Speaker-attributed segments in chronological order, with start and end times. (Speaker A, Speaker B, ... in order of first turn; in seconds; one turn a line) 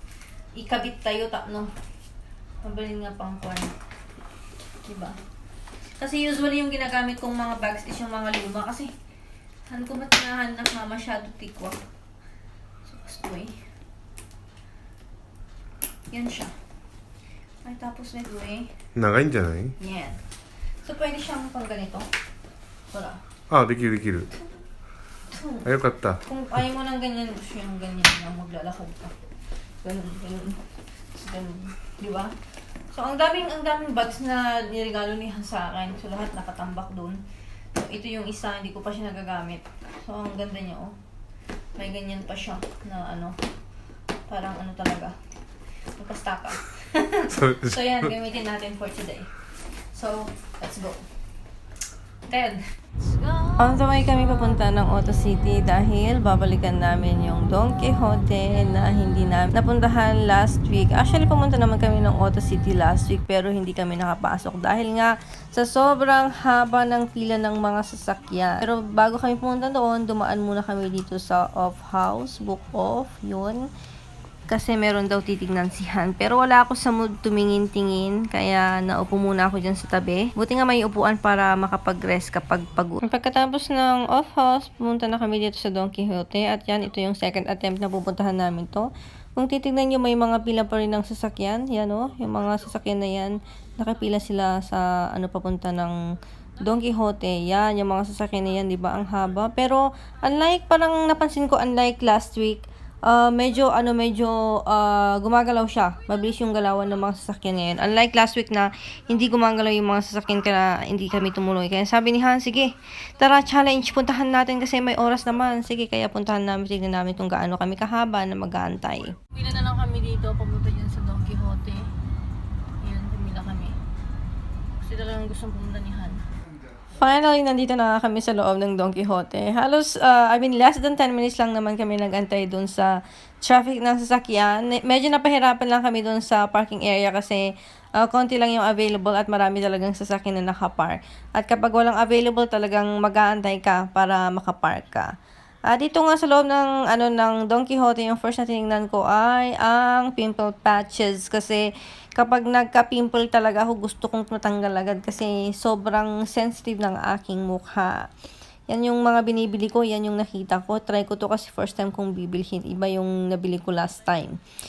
Speaker A: 0.6-1.7
Speaker A: 2.6-3.8
Speaker A: 4.8-5.2
Speaker A: 6.0-8.9
Speaker A: 9.7-11.8
Speaker A: 12.8-13.6
Speaker A: 16.1-16.6
Speaker A: 17.6-18.8
Speaker B: 18.9-19.8
Speaker A: 19.8-20.2
Speaker A: 20.8-22.1
Speaker A: 22.9-23.2
Speaker B: 23.5-24.3
Speaker A: 25.3-25.7
Speaker B: 25.6-26.2
Speaker A: 26.2-29.2
Speaker A: 29.8-30.6
Speaker A: 31.1-32.4
Speaker A: 32.9-41.0
Speaker A: 41.8-43.4
Speaker A: 44.3-45.2
Speaker A: 46.0-49.3
Speaker B: 47.4-47.7
Speaker A: 49.9-51.1
Speaker A: 52.3-52.8
Speaker A: 53.5-73.6
Speaker A: 74.5-96.0
Speaker A: 96.6-121.9
Speaker A: 122.8-123.8
Speaker A: 124.8-126.2
Speaker A: 126.9-145.1
Speaker A: 145.7-151.6
Speaker A: 152.2-158.1
Speaker A: 158.7-164.4